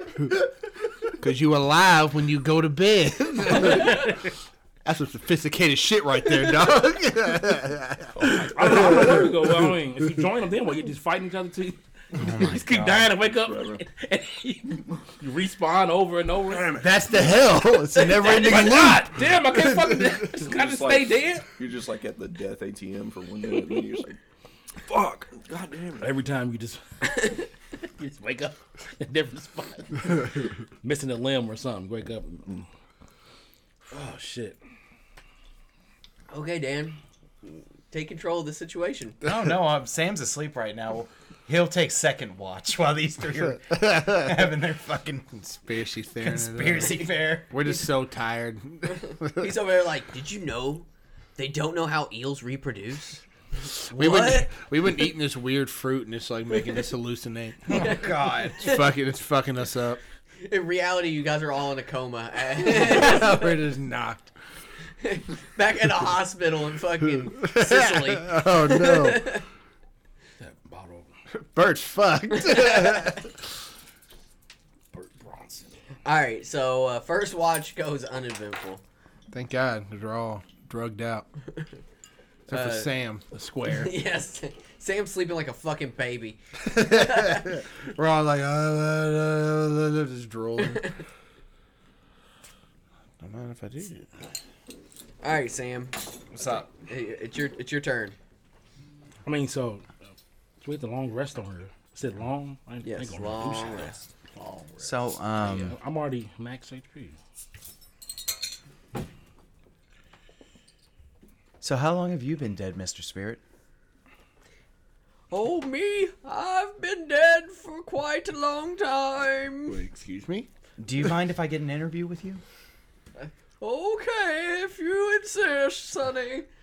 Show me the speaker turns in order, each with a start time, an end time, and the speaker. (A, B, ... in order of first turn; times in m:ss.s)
0:01.2-0:04.1 A
0:04.8-0:09.3 A
0:08.2-0:16.9 B
0:12.2-0:12.6 A
0:12.2-0:13.1 C
0:13.2-0:13.8 D
0:16.8-0:20.3 A
0:18.0-0:21.5 B
0:20.4-0:24.2 D
0:24.8-0:26.1 D
0:26.0-0:32.7 B
0:33.9-0:34.6 B
0:36.3-0:39.2 E
0:39.2-0:45.6 C
0:43.8-0:44.2 A
0:45.6-0:49.5 A
0:46.2-0:47.5 C
0:48.8-0:54.5 E
0:53.8-0:58.0 A
0:57.7-0:58.6 C
0:57.7-0:58.7 E
0:58.6-1:00.0 A
1:00.4-1:03.6 E
1:02.6-1:04.3 A
1:05.0-1:09.5 E
1:07.4-1:09.3 A
1:10.4-1:11.1 B
1:11.3-1:13.3 A
1:12.4-1:13.2 E
1:14.9-1:15.6 B
1:16.0-1:18.8 E
1:19.3-1:21.3 A
1:22.5-1:22.9 E
1:22.5-1:24.0 A
1:23.7-1:27.6 E
1:26.7-1:30.9 A
1:30.7-1:31.0 E
1:33.2-1:34.1 A
1:35.2-1:38.2 E
1:36.3-1:36.7 C
1:39.2-1:39.9 B
1:40.6-1:44.0 B
1:42.8-1:44.1 E
1:44.8-1:45.8 C
1:45.4-1:47.2 B
1:51.6-1:53.4 C
1:55.3-1:59.8 E
1:59.7-2:00.5 A
2:00.8-2:02.4 C
2:03.2-2:06.5 E